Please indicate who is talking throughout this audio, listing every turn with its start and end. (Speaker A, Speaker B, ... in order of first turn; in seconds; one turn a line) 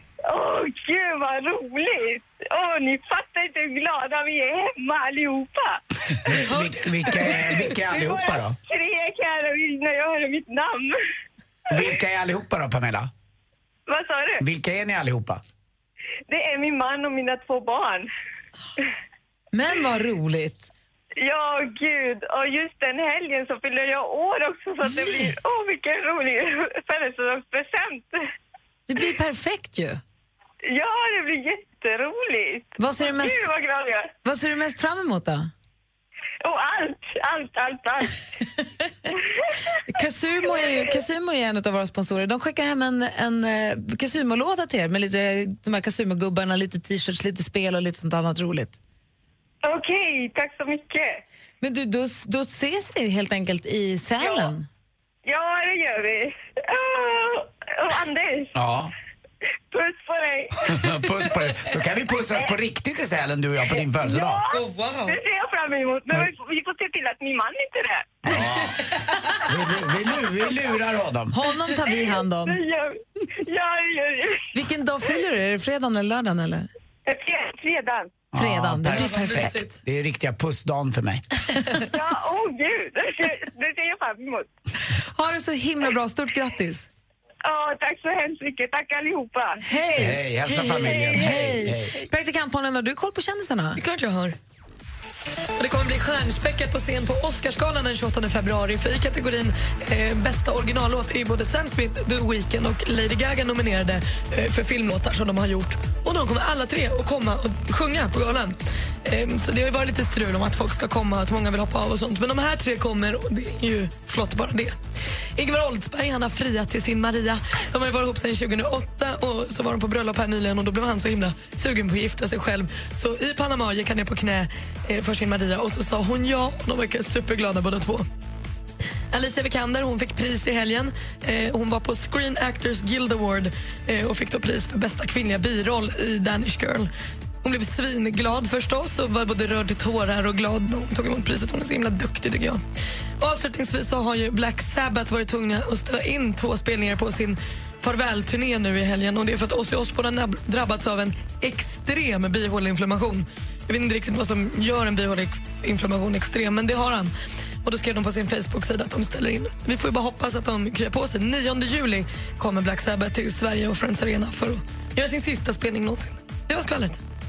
Speaker A: 0.3-6.3
Speaker B: 6.3-8.6
Speaker C: 6.3-6.7
Speaker A: 7.0-11.0
Speaker B: 11.7-13.1
Speaker A: 13.9-14.4
Speaker B: 14.4-15.4
Speaker A: 16.3-18.1
Speaker D: 19.5-20.7
Speaker A: 21.2-28.2
Speaker D: 28.9-30.0
Speaker A: 30.7-34.1
Speaker D: 32.8-33.4
Speaker D: 34.2-35.5
Speaker A: 36.4-38.2
Speaker D: 39.9-48.8
Speaker A: 49.6-51.2
Speaker D: 51.6-54.7
Speaker A: 55.2-58.5
Speaker B: 58.5-58.9
Speaker A: 59.7-60.8
Speaker B: 60.6-64.4
Speaker A: 64.0-68.3
Speaker D: 64.5-65.2
Speaker B: 68.3-68.8
Speaker B: 69.4-71.4
Speaker D: 71.3-72.6
Speaker A: 71.8-74.5
Speaker D: 74.5-76.7
Speaker A: 77.0-78.1
Speaker B: 78.3-81.2
Speaker D: 78.3-79.6
Speaker C: 78.9-79.7
Speaker A: 81.9-84.5
Speaker D: 85.1-86.9
Speaker A: 87.5-89.6
Speaker D: 89.6-93.8
Speaker B: 90.0-92.0
Speaker A: 90.7-91.4
Speaker C: 93.8-94.4
Speaker C: 95.6-114.8
Speaker C: 115.4-128.1
Speaker C: 129.1-136.9
Speaker C: 137.4-142.6
Speaker C: 143.2-157.1
Speaker C: 157.6-167.0